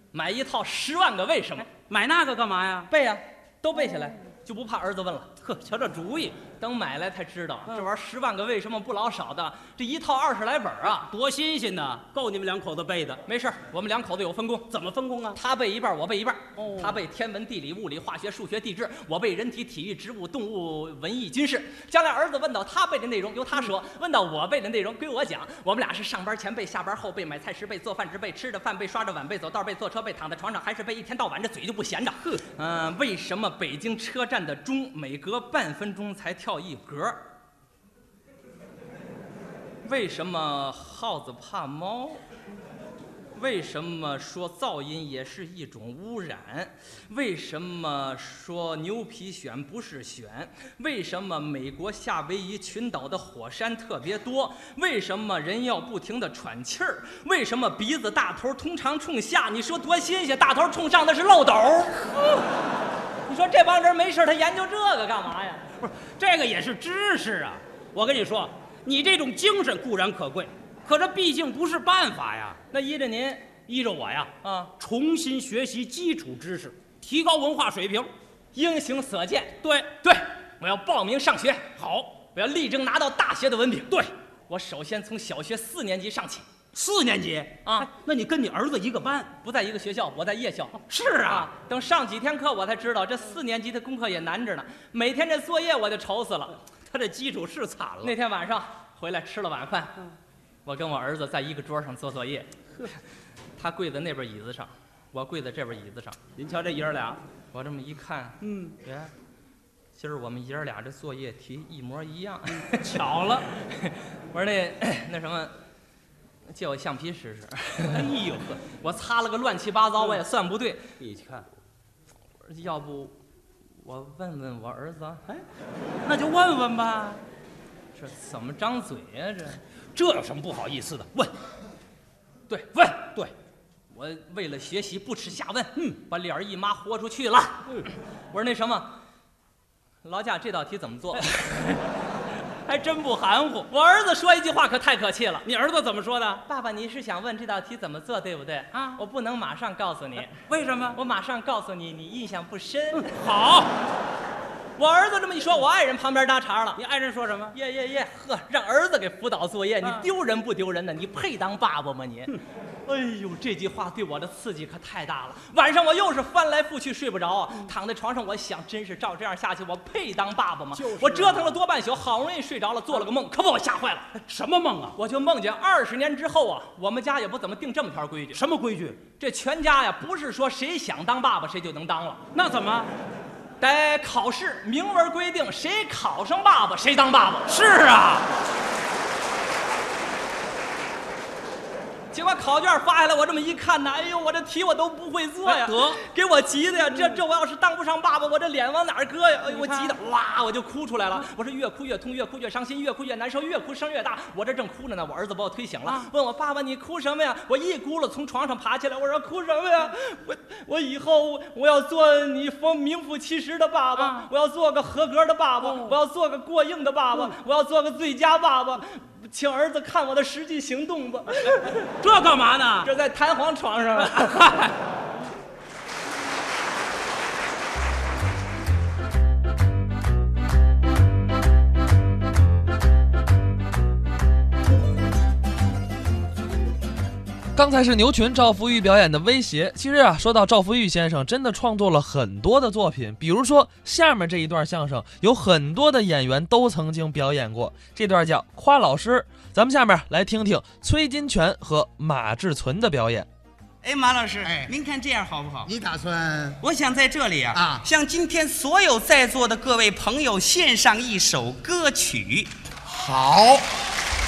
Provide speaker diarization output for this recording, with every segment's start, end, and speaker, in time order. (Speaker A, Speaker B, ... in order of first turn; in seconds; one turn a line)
Speaker A: 0.1-1.7
Speaker B: 1.7-2.9
Speaker A: 2.9-5.3
Speaker B: 5.4-6.4
Speaker A: 6.6-11.1
Speaker B: 11.1-13.2
Speaker A: 13.3-14.7
Speaker B: 14.7-15.4
Speaker A: 15.3-37.2
Speaker B: 16.6-17.0
Speaker A: 39.8-42.2
Speaker A: 43.4-62.5
Speaker A: 63.3-65.6
Speaker B: 65.8-72.6
Speaker A: 72.7-73.6
Speaker B: 73.7-78.1
Speaker A: 74.4-74.7
Speaker A: 78.5-81.7
Speaker B: 79.6-79.9
Speaker B: 81.8-82.2
Speaker A: 82.3-86.5
Speaker B: 86.7-89.3
Speaker A: 87.7-87.9
Speaker A: 89.4-96.6
Speaker B: 90.9-91.5
Speaker B: 96.8-98.2
Speaker A: 98.0-100.0
Speaker A: 100.7-102.5
Speaker A: 103.6-106.2
Speaker B: 106.4-107.2
Speaker A: 107.5-108.4
Speaker B: 108.4-109.1
Speaker A: 110.0-113.0
Speaker B: 112.5-113.5
Speaker A: 113.6-115.5
Speaker A: 116.5-118.1
Speaker B: 117.9-118.6
Speaker A: 118.7-120.9
Speaker B: 121.0-121.5
Speaker A: 122.4-123.2
Speaker A: 123.8-125.2
Speaker B: 126.0-127.2
Speaker A: 128.0-129.6
Speaker B: 129.9-131.3
Speaker A: 132.5-133.0
Speaker B: 132.9-133.3
Speaker A: 133.9-139.0
Speaker A: 140.0-141.3
Speaker B: 141.2-141.8
Speaker B: 142.7-143.7
Speaker A: 143.7-145.5
Speaker B: 145.4-146.4
Speaker A: 146.5-150.4
Speaker B: 148.7-149.0
Speaker B: 150.4-151.0
Speaker A: 150.9-153.1
Speaker B: 152.9-153.7
Speaker A: 154.8-156.8
Speaker B: 156.8-157.6
Speaker A: 157.5-174.2
Speaker B: 170.8-171.6
Speaker B: 174.2-175.0
Speaker A: 175.0-178.4
Speaker B: 178.3-179.0
Speaker A: 179.2-182.2
Speaker B: 182.3-182.9
Speaker A: 183.6-187.5
Speaker B: 187.5-188.3
Speaker A: 192.1-221.9
Speaker B: 195.4-196.0
Speaker B: 196.9-197.2
Speaker B: 199.5-200.0
Speaker B: 205.8-206.1
Speaker B: 214.0-214.3
Speaker B: 215.6-216.0
Speaker B: 222.0-222.9
Speaker A: 222.8-224.6
Speaker B: 224.0-224.8
Speaker C: 237.6-253.3
Speaker D: 253.8-255.7
Speaker E: 254.4-254.7
Speaker E: 255.7-256.6
Speaker D: 256.6-262.5
Speaker E: 257.5-257.9
Speaker E: 262.9-263.7